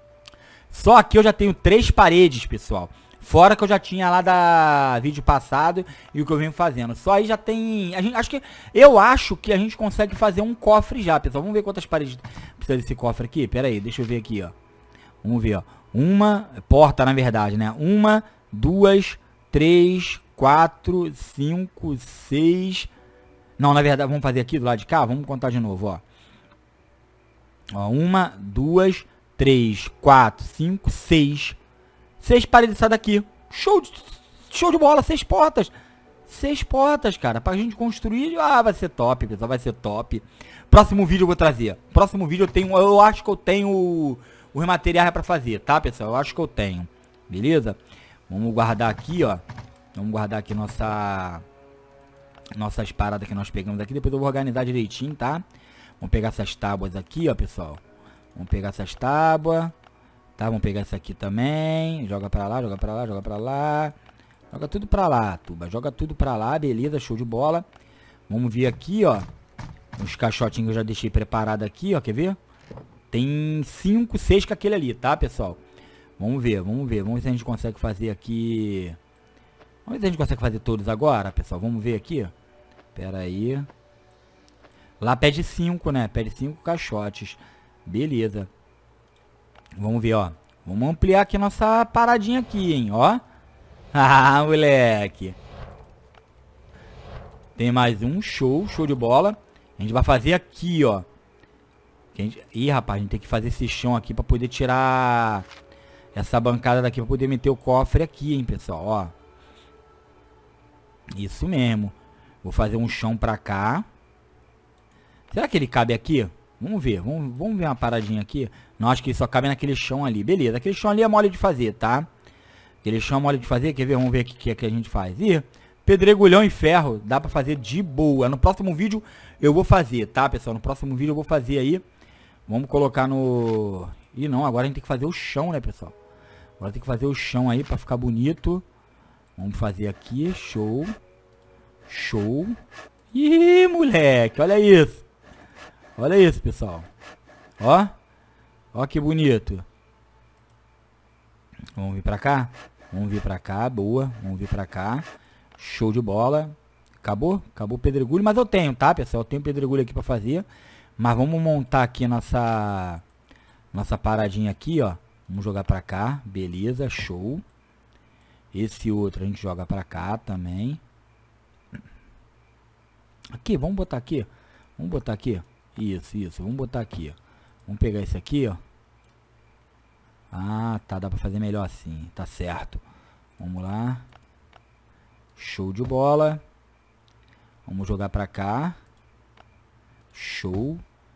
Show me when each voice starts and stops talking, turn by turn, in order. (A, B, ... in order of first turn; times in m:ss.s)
0:00.7-0:14.5 A
0:15.2-0:22.9 A
0:23.6-0:26.0 A
0:27.7-0:31.6 A
0:32.2-0:35.7 A
0:36.3-0:47.8 A
0:48.3-0:49.4 A
0:49.9-0:51.4 A
0:52.6-0:55.4 A
0:56.0-0:57.8 A
0:58.3-0:59.7 A
1:00.4-1:04.0 A
1:04.5-1:07.6 A
1:08.3-1:09.3 A
1:10.0-1:12.4 A
1:13.1-1:15.6 A
1:16.2-1:19.0 A
1:19.8-1:22.3 A
1:22.9-1:23.7 A
1:25.0-1:28.5 A
1:29.8-1:33.2 A
1:33.9-1:35.4 A
1:37.6-1:41.0 A
1:42.1-1:45.5 A
1:46.1-1:49.1 A
1:51.2-1:53.8 A
1:55.3-2:02.1 A
2:02.8-2:11.8 A
2:12.5-2:16.0 A
2:16.6-2:18.6 A
2:19.4-2:21.0 A
2:21.9-2:22.6 A
2:23.1-2:25.0 A
2:26.0-2:26.9 A
2:27.6-2:27.9 A
2:28.7-2:29.6 A
2:31.8-2:40.5 A
2:41.0-2:43.0 A
2:43.7-2:47.4 A
2:48.5-2:50.8 A
2:53.3-2:58.6 A
3:00.3-3:02.8 A
3:03.4-3:04.0 A
3:05.4-3:06.4 A
3:07.7-3:08.8 A
3:10.1-3:10.8 A